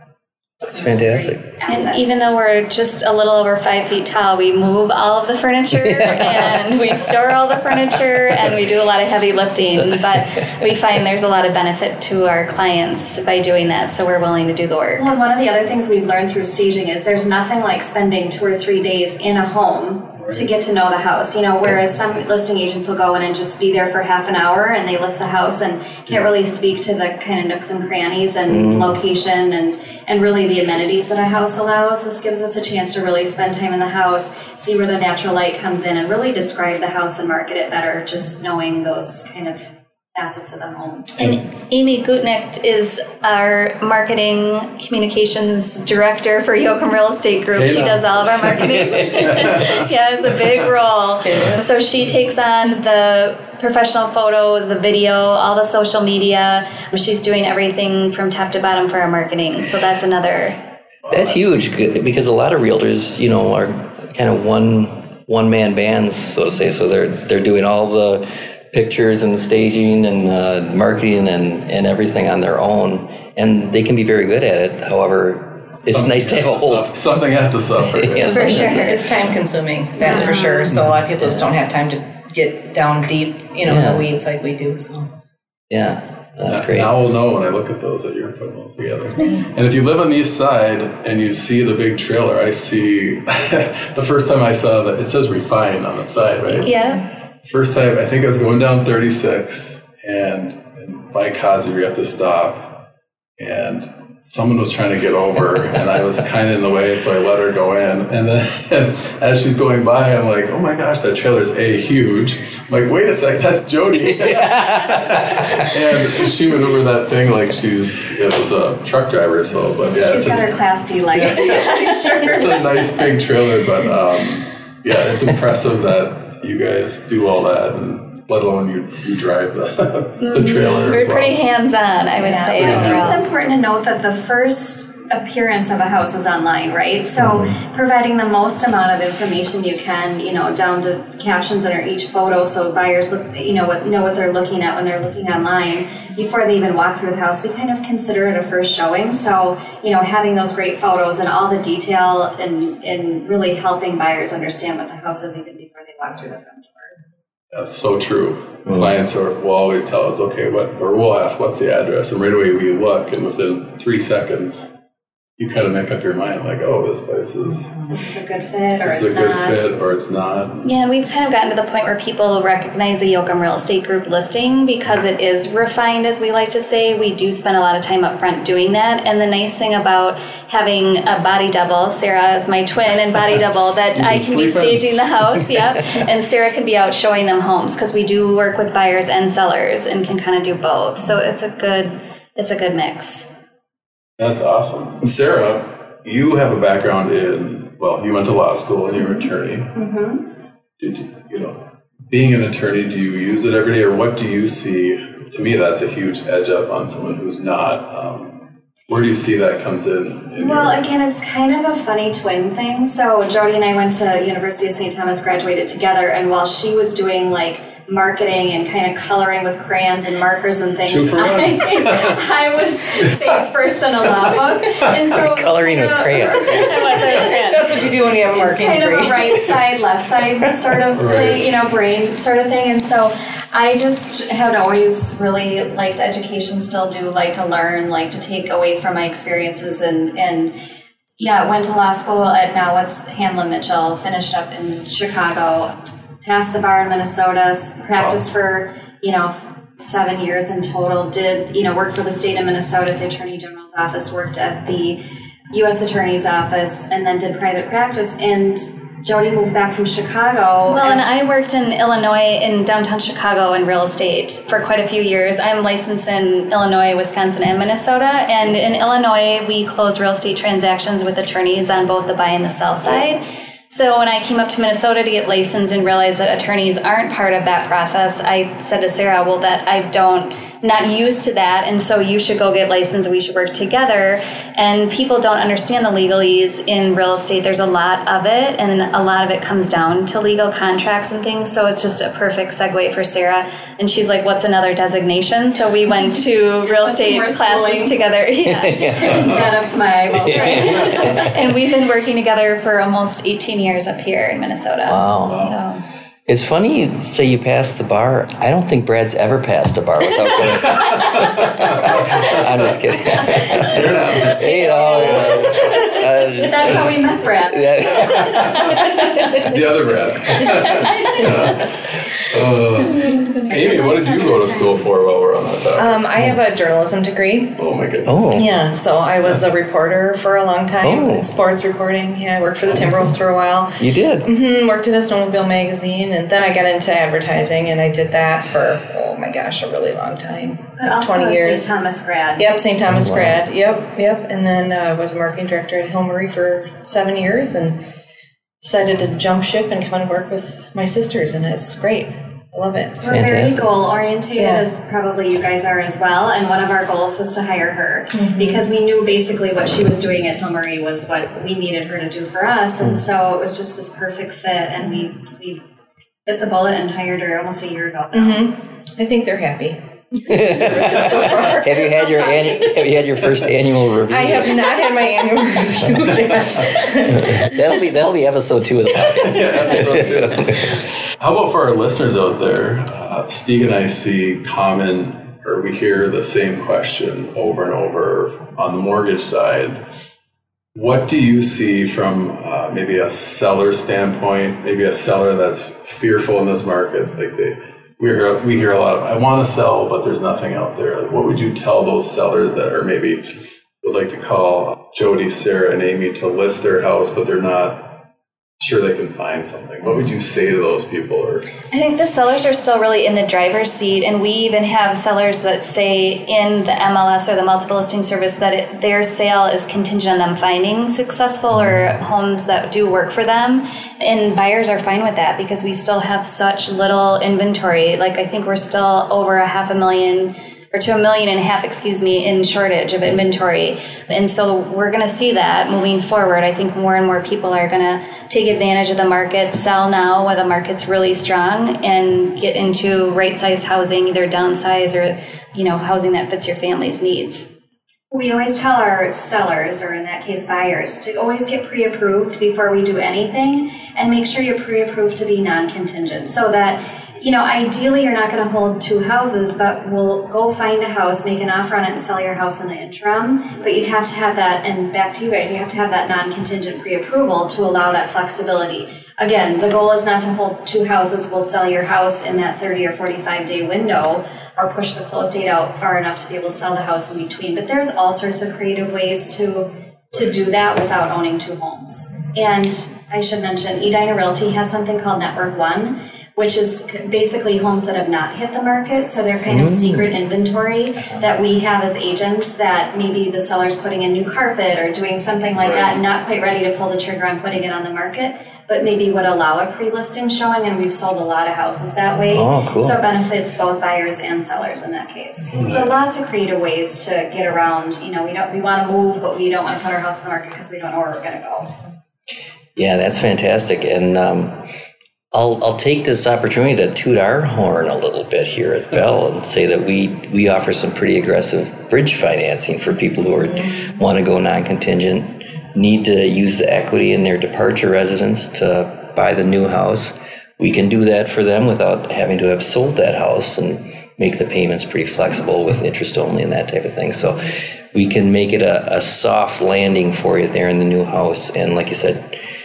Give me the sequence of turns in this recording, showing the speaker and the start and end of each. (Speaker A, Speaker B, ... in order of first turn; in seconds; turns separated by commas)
Speaker A: 0.6-2.1, Speaker B: 0.7-1.4, Speaker C: 1.7-15.1, Speaker B: 6.0-6.4, Speaker A: 15.0-41.2, Speaker B: 28.5-29.0, Speaker C: 41.2-60.6, Speaker D: 47.5-49.8, Speaker B: 61.1-76.9, Speaker D: 75.9-78.8, Speaker B: 78.0-79.0, Speaker C: 78.3-79.0, Speaker A: 78.4-78.6, Speaker E: 78.8-85.1, Speaker A: 80.0-80.6, Speaker C: 80.0-80.7, Speaker B: 81.2-81.5, Speaker B: 83.6-84.1, Speaker B: 85.7-86.9, Speaker D: 86.5-96.7, Speaker C: 96.6-97.0, Speaker D: 97.5-102.8, Speaker D: 103.4-120.5, Speaker B: 114.4-115.0, Speaker A: 119.8-122.8, Speaker D: 121.1-121.7, Speaker C: 121.4-122.1, Speaker D: 122.4-131.4, Speaker C: 130.2-133.2, Speaker A: 132.2-156.9, Speaker D: 132.6-133.1, Speaker D: 157.5-164.7, Speaker D: 165.4-167.8, Speaker A: 167.9-169.7, Speaker D: 168.8-170.7, Speaker C: 170.6-193.3, Speaker D: 183.9-184.8, Speaker D: 194.2-199.7, Speaker A: 199.0-200.2, Speaker D: 200.8-210.8, Speaker A: 210.4-240.5, Speaker D: 220.9-222.1, Speaker B: 225.1-226.6, Speaker C: 226.3-227.6, Speaker E: 227.5-229.1, Speaker D: 230.9-231.6, Speaker A: 241.2-255.0, Speaker A: 255.5-261.1, Speaker C: 260.7-299.4, Speaker A: 295.9-298.0, Speaker B: 298.5-299.5, Speaker A: 299.0-301.3, Speaker B: 300.1-301.3, Speaker C: 300.3-305.8, Speaker B: 304.9-305.5, Speaker B: 306.3-319.2, Speaker D: 313.8-314.4, Speaker A: 314.3-318.9, Speaker D: 319.5-321.6, Speaker A: 320.4-321.3, Speaker D: 322.3-326.1, Speaker A: 323.3-324.9, Speaker E: 325.8-327.6, Speaker D: 327.6-328.4, Speaker B: 328.1-328.5, Speaker E: 328.4-341.7, Speaker B: 330.8-331.3, Speaker B: 333.8-334.3, Speaker A: 340.8-342.5, Speaker E: 342.4-347.8, Speaker B: 342.9-343.4, Speaker E: 348.6-353.0, Speaker A: 353.0-365.6, Speaker B: 353.1-353.7, Speaker A: 366.3-368.5, Speaker E: 368.1-371.7, Speaker B: 370.3-374.8, Speaker E: 374.1-377.1, Speaker B: 377.1-380.7, Speaker D: 379.4-389.8, Speaker D: 390.7-408.0, Speaker D: 408.6-411.5, Speaker C: 411.7-447.5, Speaker A: 448.1-511.7, Speaker B: 489.5-490.1, Speaker D: 495.6-496.0, Speaker B: 502.3-503.0, Speaker D: 505.6-505.9, Speaker B: 512.8-514.6, Speaker B: 515.3-542.4